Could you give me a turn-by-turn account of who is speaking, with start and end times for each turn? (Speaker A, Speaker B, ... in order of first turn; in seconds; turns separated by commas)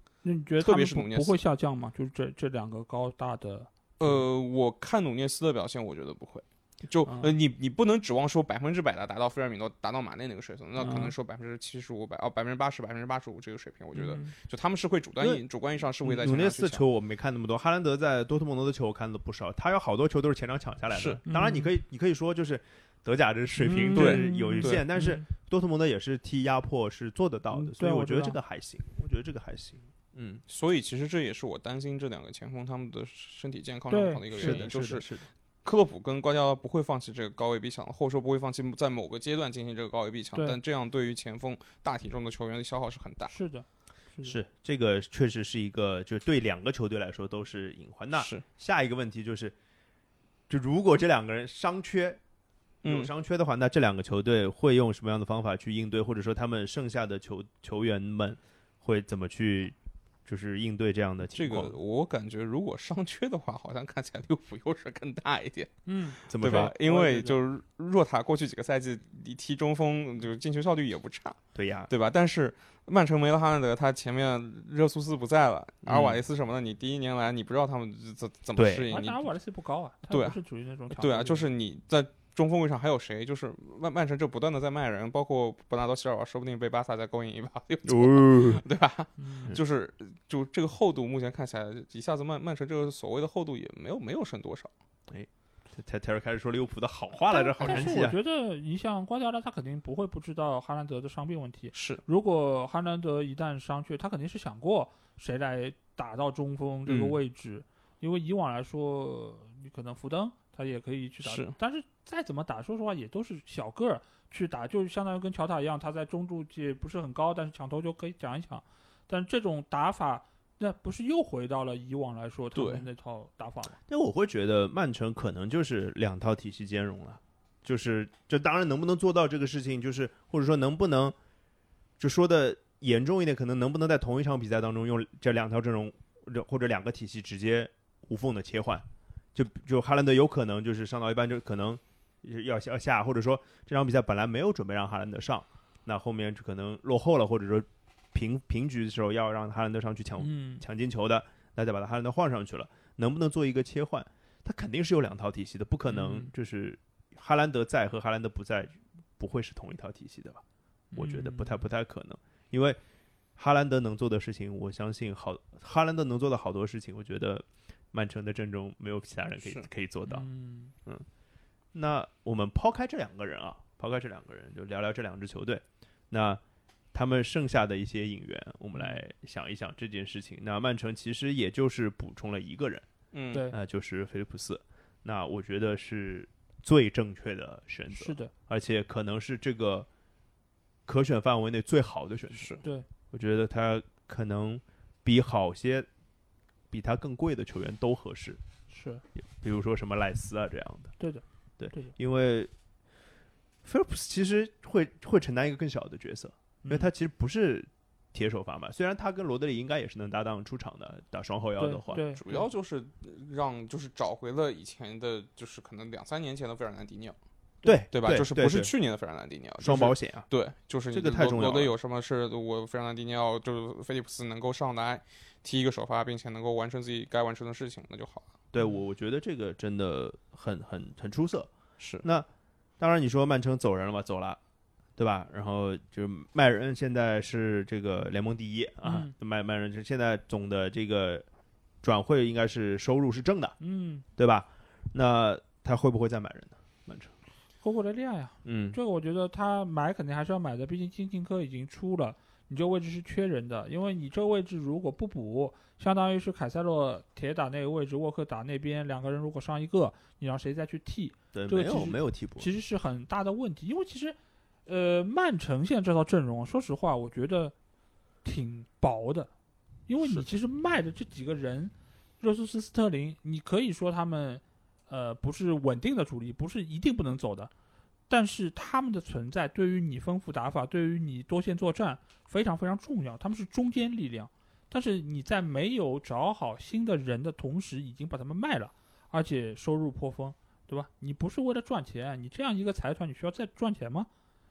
Speaker A: 0.2-3.7, Speaker B: 0.6-1.4, Speaker B: 4.0-16.8, Speaker A: 7.0-7.3, Speaker A: 10.8-11.1, Speaker A: 13.9-14.3, Speaker C: 16.0-30.4, Speaker B: 20.9-21.2, Speaker A: 21.2-21.7, Speaker A: 23.6-25.2, Speaker B: 23.9-24.8, Speaker A: 27.5-28.4, Speaker B: 30.5-35.1, Speaker A: 33.9-34.6, Speaker C: 34.3-35.3, Speaker B: 35.6-43.3, Speaker A: 43.3-44.4, Speaker C: 44.2-49.5, Speaker B: 48.1-48.4, Speaker C: 50.5-52.2, Speaker B: 52.8-53.1, Speaker C: 52.8-59.7, Speaker C: 60.2-61.7, Speaker B: 61.3-79.2, Speaker A: 65.8-67.4, Speaker C: 66.3-66.7, Speaker C: 71.5-71.9, Speaker C: 75.8-76.2, Speaker C: 78.5-78.9, Speaker A: 78.9-81.5, Speaker B: 80.1-80.4, Speaker B: 80.9-94.7, Speaker C: 87.8-88.6, Speaker A: 89.2-89.5, Speaker C: 95.1-98.2, Speaker A: 97.3-123.8, Speaker B: 97.6-97.9, Speaker B: 101.7-102.0, Speaker B: 106.9-107.1, Speaker B: 111.2-111.5, Speaker B: 122.5-122.8, Speaker C: 123.9-131.1, Speaker C: 132.0-160.4, Speaker A: 150.2-150.6, Speaker A: 155.9-156.3, Speaker A: 160.9-161.6, Speaker C: 160.9-162.8, Speaker C: 163.4-170.3, Speaker A: 170.1-170.7, Speaker C: 171.7-176.4, Speaker C: 176.9-182.8, Speaker B: 183.1-183.4, Speaker C: 183.5-189.9, Speaker A: 187.9-188.3, Speaker C: 190.9-192.5, Speaker B: 192.3-192.6, Speaker C: 193.1-195.9, Speaker C: 196.7-198.4, Speaker A: 198.7-199.0, Speaker C: 199.2-200.9, Speaker A: 201.0-201.9, Speaker C: 201.6-202.5, Speaker C: 203.6-212.0, Speaker A: 206.6-206.9, Speaker A: 211.6-212.4, Speaker B: 212.1-217.2, Speaker C: 217.6-218.7, Speaker B: 217.9-228.3, Speaker C: 219.6-220.3, Speaker C: 220.9-221.7, Speaker C: 228.5-231.5, Speaker B: 231.8-232.0, Speaker C: 232.8-234.4, Speaker C: 235.0-241.2, Speaker A: 238.8-239.1, Speaker C: 241.8-243.5, Speaker A: 243.6-244.0, Speaker C: 244.2-247.1, Speaker A: 247.6-267.5, Speaker C: 248.4-248.8, Speaker C: 261.3-262.5, Speaker A: 268.2-269.3, Speaker A: 269.9-277.5, Speaker A: 278.1-294.1